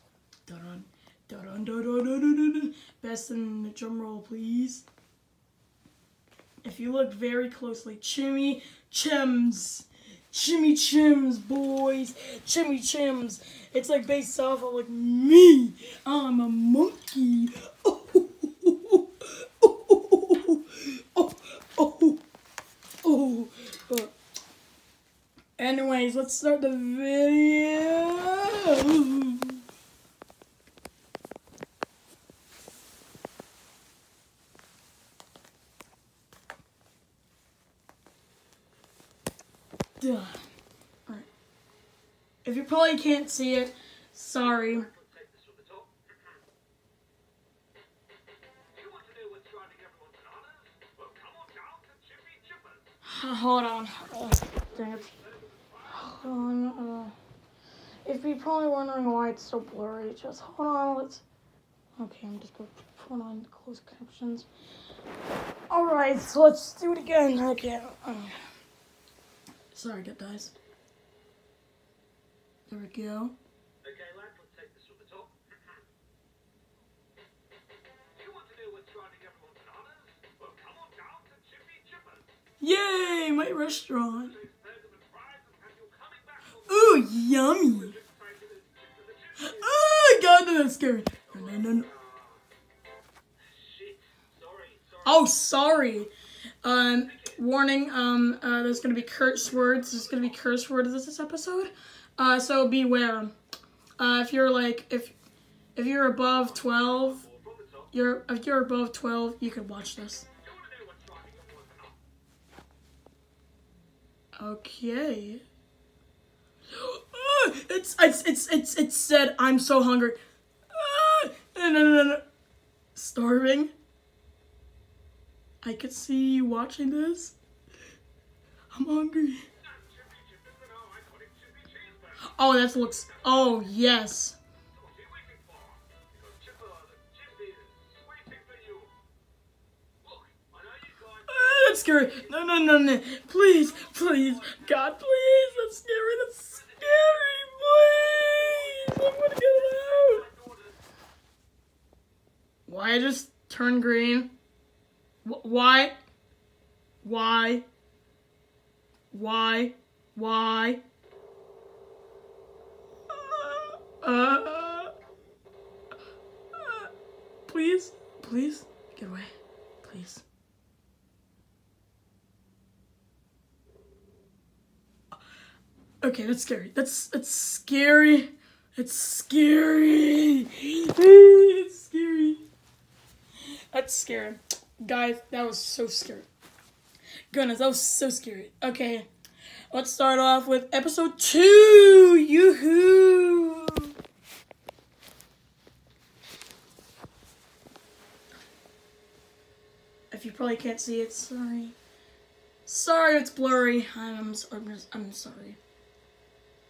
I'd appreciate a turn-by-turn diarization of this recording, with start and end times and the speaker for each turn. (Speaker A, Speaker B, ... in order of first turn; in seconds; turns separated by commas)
Speaker A: 0.5-4.8, Speaker A: 6.6-22.2, Speaker A: 23.0-24.1, Speaker A: 25.6-29.6, Speaker A: 40.0-40.4, Speaker A: 42.4-44.9, Speaker B: 44.4-46.4, Speaker B: 48.7-52.9, Speaker A: 53.0-55.1, Speaker B: 54.6-56.5, Speaker A: 55.9-57.1, Speaker A: 58.0-61.2, Speaker A: 62.0-64.5, Speaker A: 65.7-68.4, Speaker A: 69.7-70.5, Speaker A: 72.7-73.3, Speaker B: 73.8-75.8, Speaker B: 78.1-82.3, Speaker A: 82.6-84.4, Speaker B: 83.3-89.8, Speaker A: 86.6-88.0, Speaker A: 89.4-91.9, Speaker B: 91.3-92.4, Speaker B: 93.4-95.3, Speaker A: 95.0-96.1, Speaker A: 96.6-103.3, Speaker B: 97.0-97.4, Speaker B: 99.7-100.4, Speaker A: 104.0-105.1, Speaker A: 105.8-107.3, Speaker B: 106.3-107.9, Speaker A: 107.9-110.3, Speaker B: 110.4-112.0, Speaker A: 114.4-115.4, Speaker A: 116.7-120.2, Speaker A: 120.7-122.2, Speaker A: 122.9-123.7, Speaker A: 125.6-127.3, Speaker A: 128.7-129.5, Speaker B: 129.6-133.6, Speaker A: 132.2-134.4, Speaker B: 134.7-138.9, Speaker B: 140.0-142.5, Speaker A: 141.3-150.2, Speaker B: 143.5-145.4, Speaker B: 146.5-150.8, Speaker A: 152.7-154.3, Speaker A: 155.2-156.0, Speaker A: 157.0-157.6, Speaker A: 159.1-160.8, Speaker A: 163.1-164.9, Speaker A: 166.6-166.9, Speaker A: 167.5-169.3, Speaker A: 169.8-170.2, Speaker A: 176.0-182.4, Speaker A: 183.7-186.3, Speaker A: 187.3-189.1, Speaker A: 189.7-193.9, Speaker A: 200.1-201.8, Speaker A: 202.7-205.6